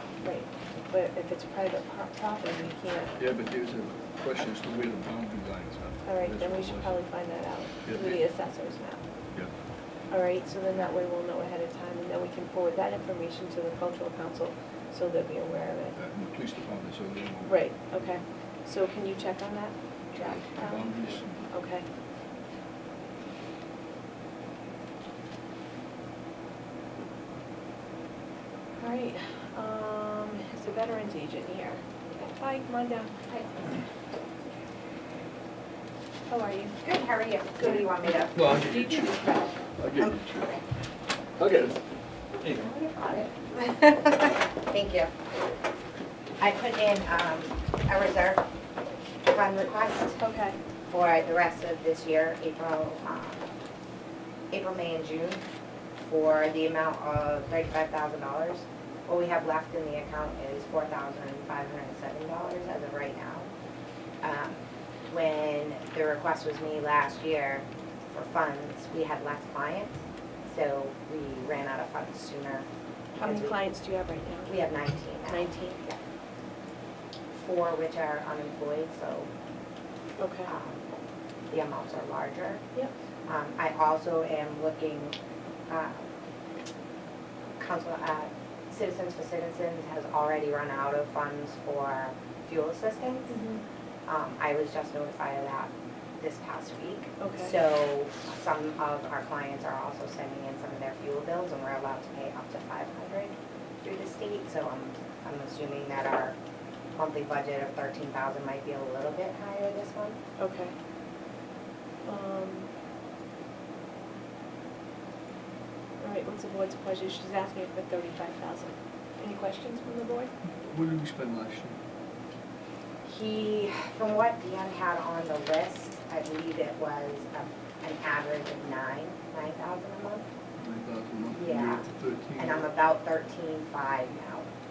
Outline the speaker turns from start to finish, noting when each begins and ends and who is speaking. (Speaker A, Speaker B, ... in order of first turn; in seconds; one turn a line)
Speaker A: 0.2-3.1
Speaker B: 3.2-7.0
Speaker A: 6.0-9.0
Speaker B: 7.8-8.2
Speaker A: 10.1-15.9
Speaker B: 15.9-17.5
Speaker A: 17.4-21.8
Speaker B: 20.6-21.5
Speaker A: 28.8-33.1
Speaker C: 33.3-33.6
Speaker A: 36.3-36.8
Speaker C: 36.8-40.6
Speaker B: 38.3-39.2
Speaker A: 38.4-39.1
Speaker B: 39.8-40.6
Speaker B: 41.4-41.8
Speaker C: 42.4-45.1
Speaker C: 46.4-48.4
Speaker C: 49.2-50.3
Speaker A: 50.2-50.6
Speaker C: 50.9-53.4
Speaker C: 54.5-55.4
Speaker C: 56.0-63.5
Speaker C: 64.2-69.9
Speaker C: 70.5-73.6
Speaker A: 73.2-74.5
Speaker C: 74.5-76.0
Speaker A: 75.3-75.8
Speaker C: 77.3-79.3
Speaker A: 80.2-80.5
Speaker C: 80.4-80.8
Speaker C: 81.5-82.6
Speaker C: 83.3-85.1
Speaker C: 85.7-86.0
Speaker C: 87.6-93.4
Speaker A: 93.3-93.6
Speaker C: 94.0-106.3
Speaker A: 97.2-97.5
Speaker C: 106.9-110.2
Speaker A: 110.4-110.7
Speaker A: 112.0-112.7
Speaker A: 116.0-120.3
Speaker B: 120.6-121.8
Speaker C: 123.0-130.2
Speaker B: 130.6-132.7
Speaker C: 131.3-131.9
Speaker C: 132.4-134.5